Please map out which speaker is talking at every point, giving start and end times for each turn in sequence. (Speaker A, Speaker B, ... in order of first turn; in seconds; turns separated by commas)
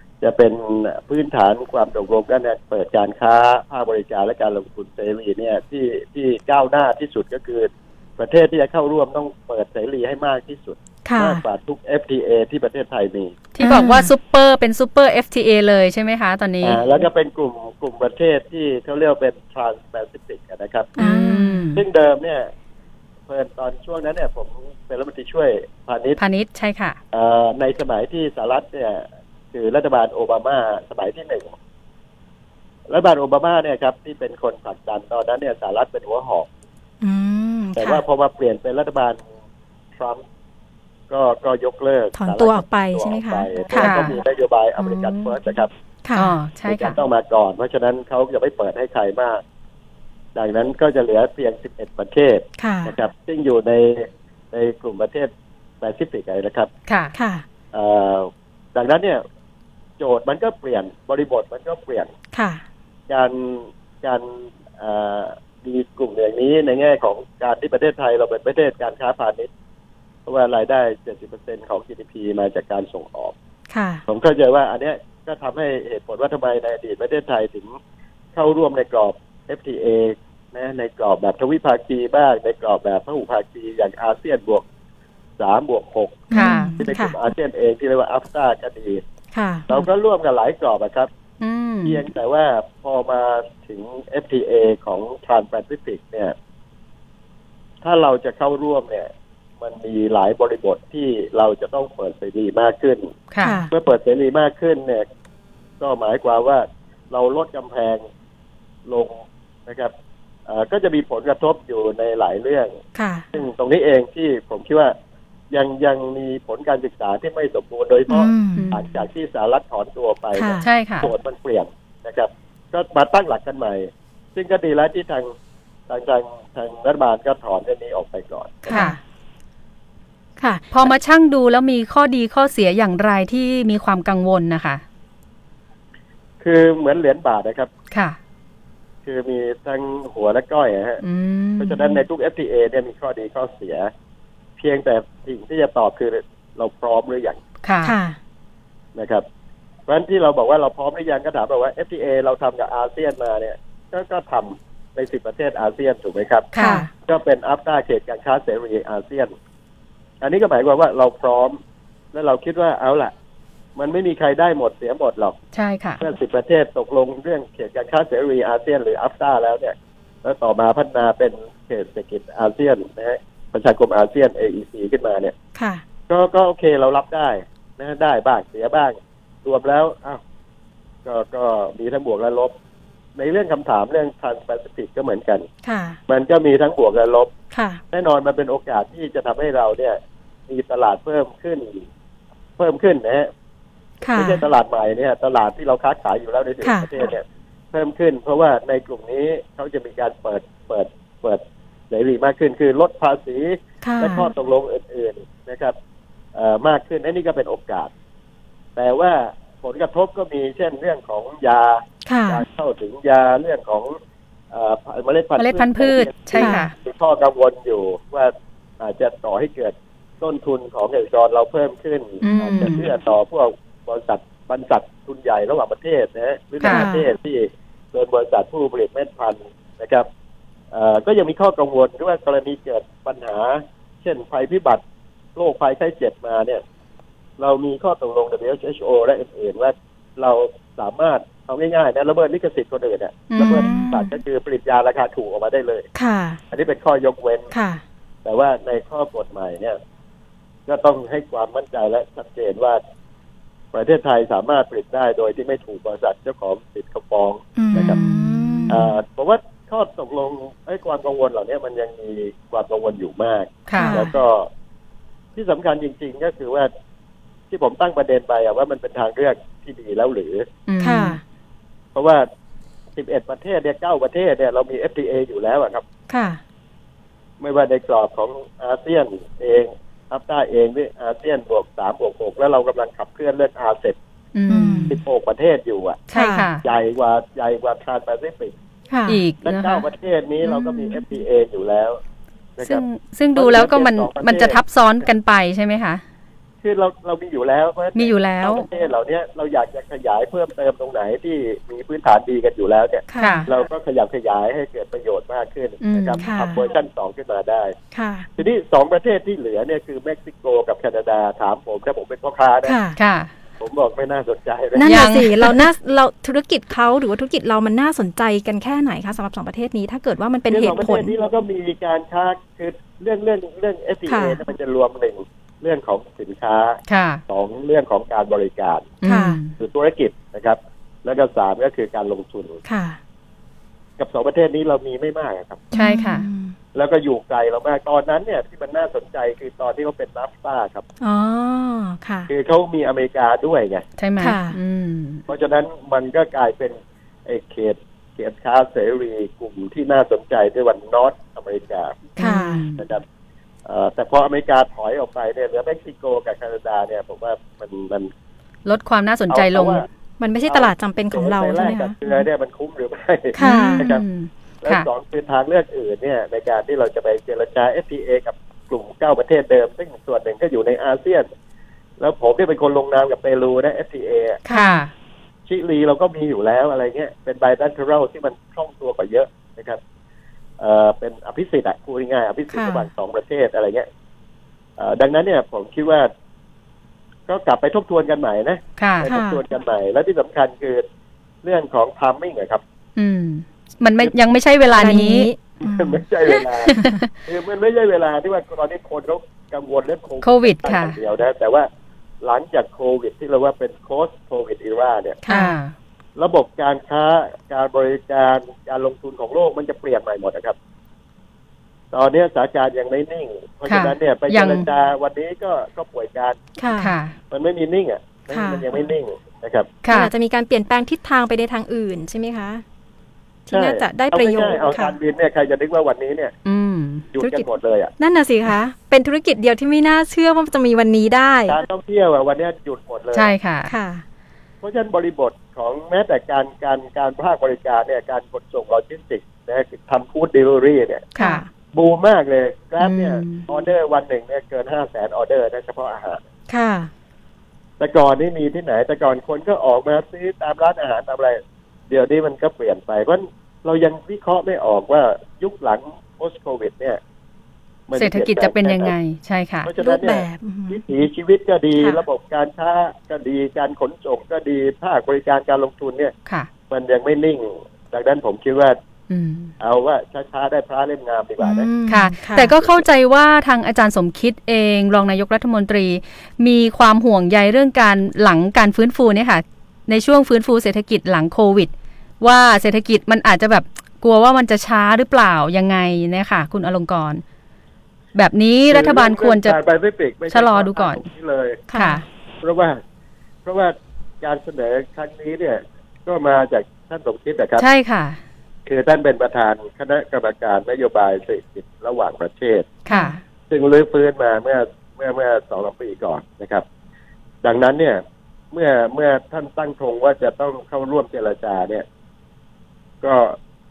Speaker A: 0.2-13.4, Speaker B: 11.1-11.4, Speaker C: 13.6-16.8, Speaker B: 13.6-14.1, Speaker A: 16.6-20.9, Speaker B: 21.0-21.7, Speaker C: 21.0-21.8, Speaker A: 21.8-22.5, Speaker A: 23.3-26.2, Speaker C: 26.2-27.0, Speaker A: 27.1-31.6, Speaker A: 32.9-36.5, Speaker B: 37.0-38.0, Speaker A: 37.8-39.2, Speaker A: 40.0-40.2, Speaker A: 41.1-45.7, Speaker B: 42.1-44.1, Speaker C: 43.8-44.1, Speaker C: 44.8-45.4, Speaker B: 46.0-46.4, Speaker C: 46.1-47.0, Speaker A: 46.7-49.4, Speaker A: 50.4-56.7, Speaker B: 52.6-52.9, Speaker C: 56.9-57.1, Speaker B: 57.1-57.5, Speaker A: 57.7-59.2, Speaker A: 60.0-62.1, Speaker B: 62.3-62.6, Speaker A: 63.1-69.5, Speaker A: 70.3-73.3, Speaker B: 73.7-74.0, Speaker A: 74.1-77.8, Speaker A: 78.3-84.6, Speaker A: 85.4-89.0, Speaker B: 86.3-87.2, Speaker C: 86.3-86.8, Speaker B: 89.3-89.8, Speaker A: 89.7-91.1, Speaker C: 91.4-92.0, Speaker A: 91.8-96.3, Speaker A: 97.8-103.1, Speaker C: 103.3-103.6, Speaker B: 103.4-103.7, Speaker A: 103.7-105.1, Speaker A: 105.8-108.0, Speaker A: 108.9-109.9, Speaker A: 110.5-112.8, Speaker B: 113.0-113.3, Speaker A: 113.3-114.9, Speaker A: 115.5-125.3, Speaker B: 118.1-118.7, Speaker C: 118.5-118.8, Speaker B: 120.3-120.7, Speaker C: 120.6-121.1, Speaker A: 125.9-128.8, Speaker B: 128.7-129.0, Speaker C: 128.7-129.0, Speaker B: 130.4-130.7, Speaker C: 130.7-134.8, Speaker A: 136.4-137.7, Speaker C: 137.9-138.2, Speaker A: 139.1-141.0, Speaker C: 141.0-142.0, Speaker A: 141.6-143.9, Speaker A: 144.6-147.4, Speaker C: 147.6-147.9, Speaker B: 147.8-148.2, Speaker A: 148.9-149.2, Speaker A: 149.9-156.5, Speaker C: 156.5-156.9, Speaker B: 156.6-156.9, Speaker A: 157.0-159.3, Speaker A: 160.2-161.6, Speaker A: 162.1-163.1, Speaker A: 163.8-165.4, Speaker C: 165.5-166.0, Speaker A: 166.0-175.3, Speaker B: 175.6-175.8, Speaker A: 176.1-180.2, Speaker A: 181.1-182.5, Speaker A: 183.2-185.5, Speaker B: 185.6-186.0, Speaker A: 186.1-187.3, Speaker B: 187.5-187.8, Speaker A: 187.9-191.8, Speaker A: 192.6-193.3, Speaker B: 194.0-194.4, Speaker A: 194.1-205.8, Speaker B: 196.6-196.9, Speaker B: 203.8-204.3, Speaker A: 206.3-207.9, Speaker A: 208.8-214.0, Speaker B: 212.1-212.4, Speaker A: 214.5-230.1, Speaker C: 215.4-216.7, Speaker B: 216.3-216.7, Speaker C: 222.2-222.8, Speaker C: 226.6-226.9, Speaker B: 226.6-227.1, Speaker A: 230.7-234.8, Speaker A: 235.4-236.6, Speaker A: 237.4-245.9, Speaker C: 243.3-243.9, Speaker B: 243.4-244.1, Speaker B: 245.9-246.4, Speaker A: 246.5-247.5, Speaker B: 247.5-247.8, Speaker A: 248.2-249.8, Speaker A: 250.7-252.8, Speaker A: 253.7-258.0, Speaker B: 257.6-258.9, Speaker C: 257.7-258.8, Speaker A: 258.7-264.5, Speaker C: 263.7-264.0, Speaker B: 263.8-264.1, Speaker A: 265.4-266.7, Speaker A: 267.5-270.5, Speaker C: 270.7-271.2, Speaker B: 270.8-271.2, Speaker A: 271.9-272.3, Speaker A: 273.0-275.8, Speaker B: 276.1-276.4, Speaker A: 277.4-284.0, Speaker C: 284.4-284.9, Speaker B: 284.5-285.0, Speaker A: 284.9-286.0, Speaker C: 286.1-286.6, Speaker B: 286.1-286.5, Speaker A: 286.6-288.6, Speaker B: 288.9-289.2, Speaker C: 289.1-289.8, Speaker A: 289.4-292.0, Speaker A: 292.6-292.8, Speaker C: 292.6-296.0, Speaker A: 293.4-294.6, Speaker A: 296.6-307.8, Speaker C: 297.9-298.7, Speaker B: 303.1-303.5, Speaker C: 303.2-303.5, Speaker C: 305.8-306.2, Speaker B: 306.2-306.6, Speaker B: 307.9-308.3, Speaker A: 308.4-312.8, Speaker B: 312.6-313.0, Speaker C: 313.0-313.3, Speaker A: 313.6-315.1, Speaker B: 314.8-321.1, Speaker C: 314.8-315.6, Speaker A: 320.5-329.0, Speaker B: 324.1-324.4, Speaker C: 326.9-327.2, Speaker C: 329.0-329.5, Speaker B: 329.1-329.4, Speaker A: 329.6-332.6, Speaker B: 332.7-333.0, Speaker A: 334.0-335.6, Speaker B: 335.7-336.6, Speaker C: 335.8-336.3, Speaker A: 336.7-340.8, Speaker B: 341.0-342.3, Speaker A: 342.3-343.8, Speaker C: 344.0-345.2, Speaker B: 344.2-344.6, Speaker A: 345.3-352.1, Speaker B: 352.2-352.6, Speaker C: 352.2-352.8, Speaker A: 352.8-353.0, Speaker A: 353.6-358.1, Speaker C: 358.7-359.9, Speaker A: 359.3-359.9, Speaker B: 360.2-362.0, Speaker A: 360.5-364.0, Speaker B: 363.4-363.9, Speaker C: 363.4-364.9, Speaker A: 364.6-371.3, Speaker A: 372.0-374.4, Speaker B: 374.5-374.8, Speaker C: 374.5-374.9, Speaker A: 375.5-379.8, Speaker A: 380.6-383.9, Speaker B: 382.5-382.9, Speaker A: 384.8-386.1, Speaker A: 387.3-390.9, Speaker C: 388.8-389.1, Speaker B: 389.1-389.4, Speaker A: 391.4-392.6, Speaker C: 393.0-395.3, Speaker B: 394.8-396.9, Speaker A: 395.6-401.7, Speaker C: 396.7-397.1, Speaker C: 400.2-401.0, Speaker A: 402.2-405.2, Speaker B: 405.2-405.6, Speaker C: 405.3-405.7, Speaker A: 406.2-410.6, Speaker A: 411.9-416.4, Speaker C: 413.7-414.7, Speaker B: 416.6-416.9, Speaker C: 416.8-417.1, Speaker A: 417.3-419.7, Speaker B: 418.3-418.7, Speaker C: 419.9-420.1, Speaker B: 419.9-422.6, Speaker B: 423.5-425.0, Speaker A: 423.5-426.4, Speaker C: 426.5-427.1, Speaker A: 427.1-427.9, Speaker B: 427.2-427.5, Speaker B: 428.0-431.6, Speaker A: 431.5-433.3, Speaker C: 433.1-433.7, Speaker B: 433.7-434.0, Speaker A: 434.6-441.1, Speaker B: 441.1-441.5, Speaker A: 441.7-446.2, Speaker C: 442.8-443.5, Speaker B: 446.5-446.9, Speaker A: 447.8-457.0, Speaker A: 457.9-458.9, Speaker C: 458.0-459.7, Speaker A: 459.6-466.1, Speaker B: 459.8-460.8, Speaker B: 461.8-462.0, Speaker A: 466.7-468.8, Speaker C: 469.1-469.5, Speaker A: 469.6-471.7, Speaker B: 471.4-472.5, Speaker C: 471.9-487.2, Speaker C: 488.1-489.6, Speaker A: 488.7-491.6, Speaker C: 490.3-491.0, Speaker B: 491.7-492.1, Speaker C: 491.8-492.0, Speaker A: 492.4-492.8, Speaker A: 493.4-497.6, Speaker C: 497.6-498.2, Speaker A: 498.7-502.7, Speaker C: 502.9-503.2, Speaker B: 502.9-503.2, Speaker A: 503.5-506.6, Speaker A: 507.4-508.0, Speaker A: 508.5-511.9, Speaker A: 513.0-513.4